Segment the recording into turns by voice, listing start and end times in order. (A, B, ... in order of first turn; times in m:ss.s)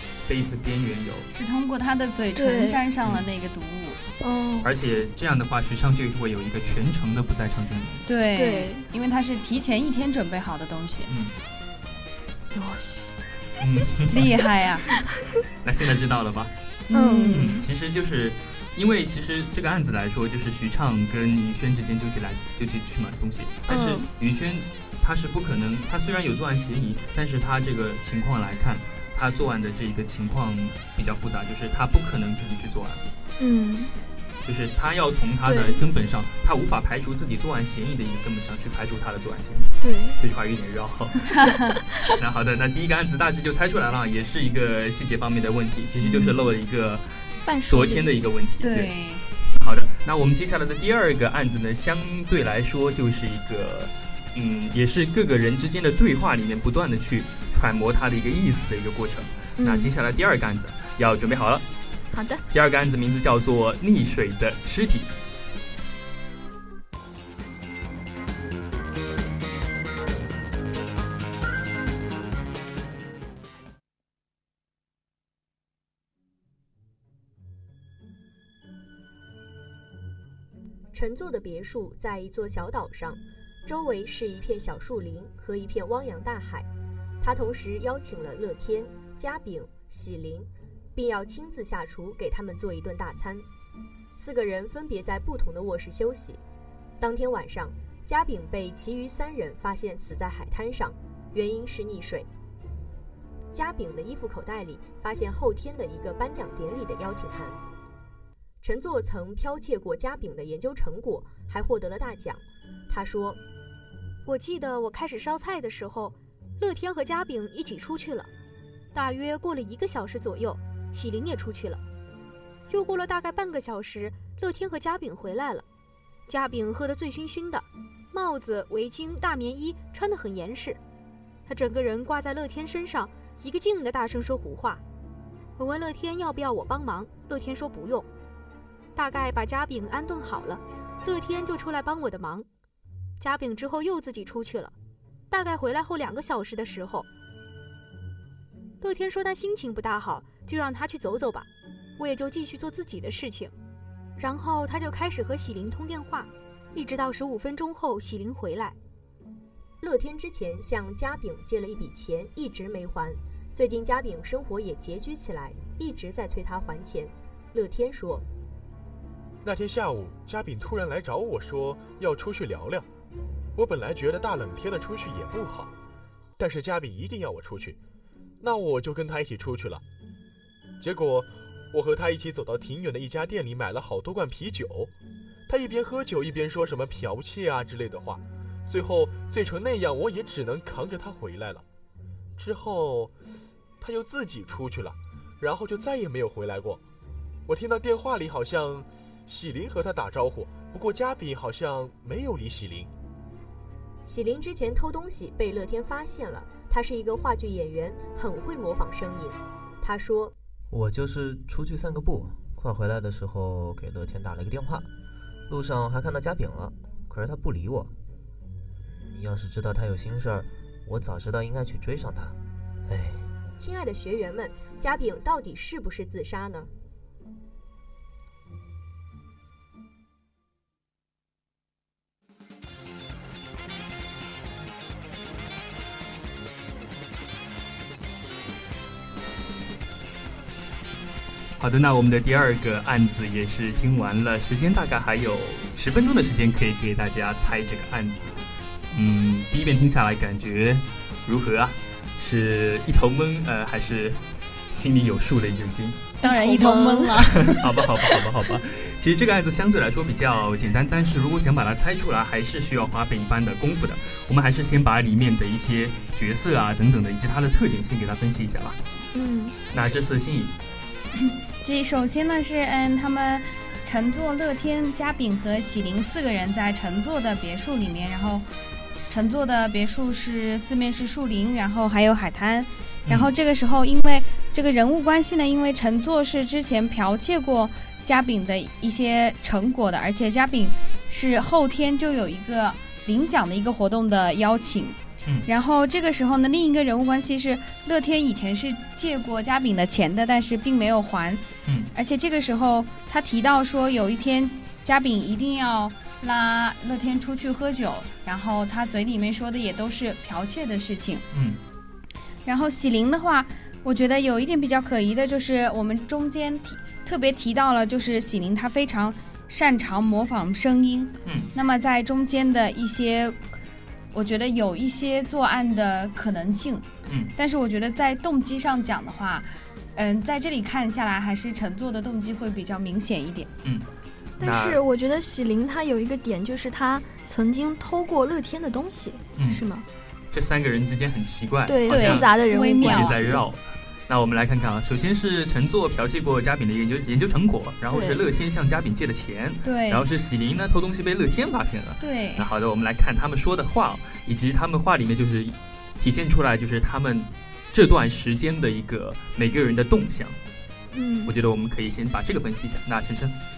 0:00.3-0:01.3 A
0:01.3-0:04.0 B
0:02.3-0:02.8 C
0:04.2-0:04.7 C
0:04.6-0:08.1 A
0:08.0-0:11.1 B
0:08.3-0:08.8 C
0:11.1-0:11.3 A
0:12.5-0:13.2 C
0:13.6-0:14.4 A
0:14.1-0:14.9 B
0:15.6-0:16.5 A
0:16.9-0:17.5 B
0:16.9-0:17.6 C
0:17.3-0:33.0 A
0:23.7-0:24.1 C
0:33.4-0:33.9 C
0:34.4-0:41.4 A
0:35.4-0:35.8 C
0:39.8-0:40.2 C
0:42.1-0:48.9 A
0:46.1-0:46.3 C
0:47.4-0:48.1 C
0:48.6-0:49.2 B
0:49.5-1:01.6 A
0:59.6-0:59.9 C
1:02.1-1:02.4 C
1:02.5-1:05.1 A
1:20.9-1:26.7 D
1:27.2-1:33.4 D
1:34.2-1:36.4 D
1:37.0-1:42.3 D
1:43.5-1:47.6 D
1:48.6-1:53.4 D
1:54.2-1:58.3 E
1:58.9-2:01.8 E
2:02.7-2:05.6 E
2:06.3-2:10.8 E
2:11.5-2:14.8 E
2:15.6-2:18.1 E
2:18.9-2:22.5 E
2:23.2-2:24.7 E
2:25.3-2:27.1 E
2:28.8-2:33.5 E
2:34.2-2:38.8 E
2:39.8-2:48.2 D
2:49.4-2:52.8 F
2:53.5-2:55.7 F
2:56.4-2:57.8 F
2:58.4-2:59.8 F
3:00.8-3:04.9 F
3:05.5-3:11.6 F
3:12.4-3:13.1 F
3:13.8-3:16.8 F
3:17.5-3:22.9 F
3:24.0-3:30.3 D
3:30.7-3:34.9 G
3:35.5-3:37.9 G
3:38.8-3:43.3 G
3:43.6-3:46.7 D
4:01.6-4:16.2 A
4:16.2-4:17.5 C
4:16.2-4:17.6 B
4:17.4-4:28.8 A
4:29.1-4:29.6 C
4:29.7-4:30.5 A
4:31.2-4:38.4 B
4:39.1-5:11.2 B
4:43.0-4:43.3 A
5:11.3-5:11.6 A
5:12.4-5:23.4 B
5:21.2-5:21.5 A
5:24.1-5:33.5 B
5:27.1-5:27.3 A
5:34.4-5:34.8 A
5:34.4-5:39.8 C
5:39.4-5:39.6 A
5:40.3-6:00.4 A
5:41.6-5:43.4 C
5:41.9-5:43.3 B
5:47.9-5:48.2 C
5:49.6-5:50.0 B
5:52.0-5:52.4 B
6:00.9-6:01.3 C
6:01.2-6:03.4 A